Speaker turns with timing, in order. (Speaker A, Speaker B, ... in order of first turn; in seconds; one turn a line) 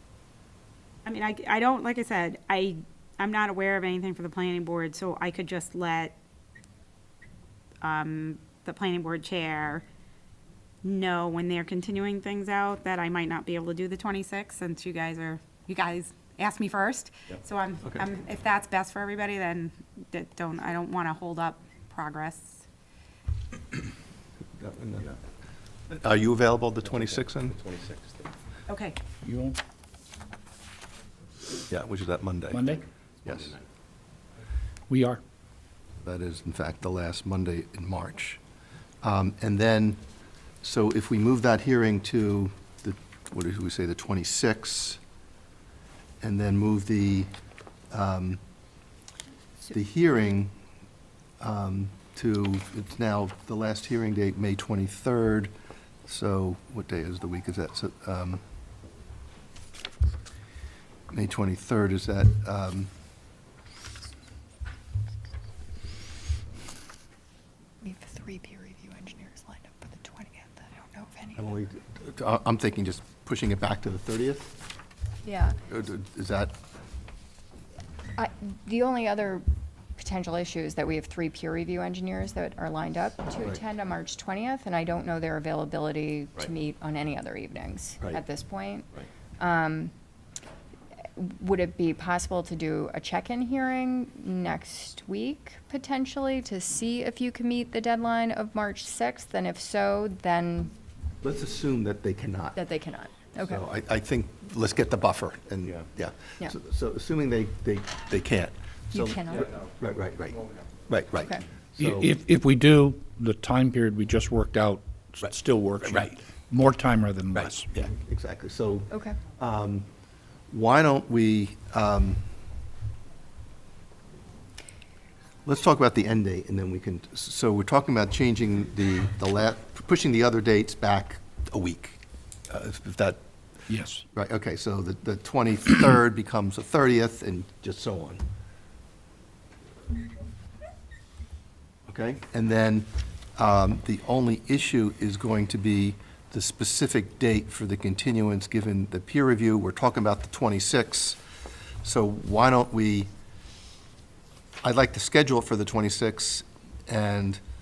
Speaker A: 1.1-6.1
Speaker A: 7.8-9.8
Speaker A: 10.8-22.6
Speaker B: 24.6-25.1
Speaker B: 25.9-27.6
Speaker C: 26.8-28.3
Speaker A: 28.7-29.0
Speaker D: 29.2-29.6
Speaker B: 31.7-33.5
Speaker D: 32.5-32.8
Speaker C: 33.3-33.6
Speaker D: 34.9-35.2
Speaker B: 36.0-38.4
Speaker B: 39.0-40.0
Speaker B: 40.6-45.0
Speaker B: 46.2-47.3
Speaker B: 47.9-48.4
Speaker B: 49.6-50.5
Speaker B: 51.4-55.5
Speaker B: 56.1-58.4
Speaker B: 61.1-62.9
Speaker E: 67.8-71.5
Speaker B: 71.3-74.6
Speaker E: 75.2-75.5
Speaker B: 75.7-76.5
Speaker E: 78.2-79.5
Speaker E: 80.0-89.9
Speaker E: 91.2-100.7
Speaker B: 101.2-102.6
Speaker E: 102.5-103.6
Speaker B: 103.5-112.1
Speaker E: 108.9-109.5
Speaker D: 111.8-117.7
Speaker B: 115.8-116.1
Speaker B: 117.3-119.9
Speaker E: 118.9-119.2
Speaker B: 120.5-122.2
Speaker B: 125.5-132.0
Speaker B: 132.5-133.2
Speaker D: 133.7-134.0
Speaker B: 134.2-138.2
Speaker B: 141.9-151.2
Speaker B: 151.8-153.1
Speaker B: 154.6-157.4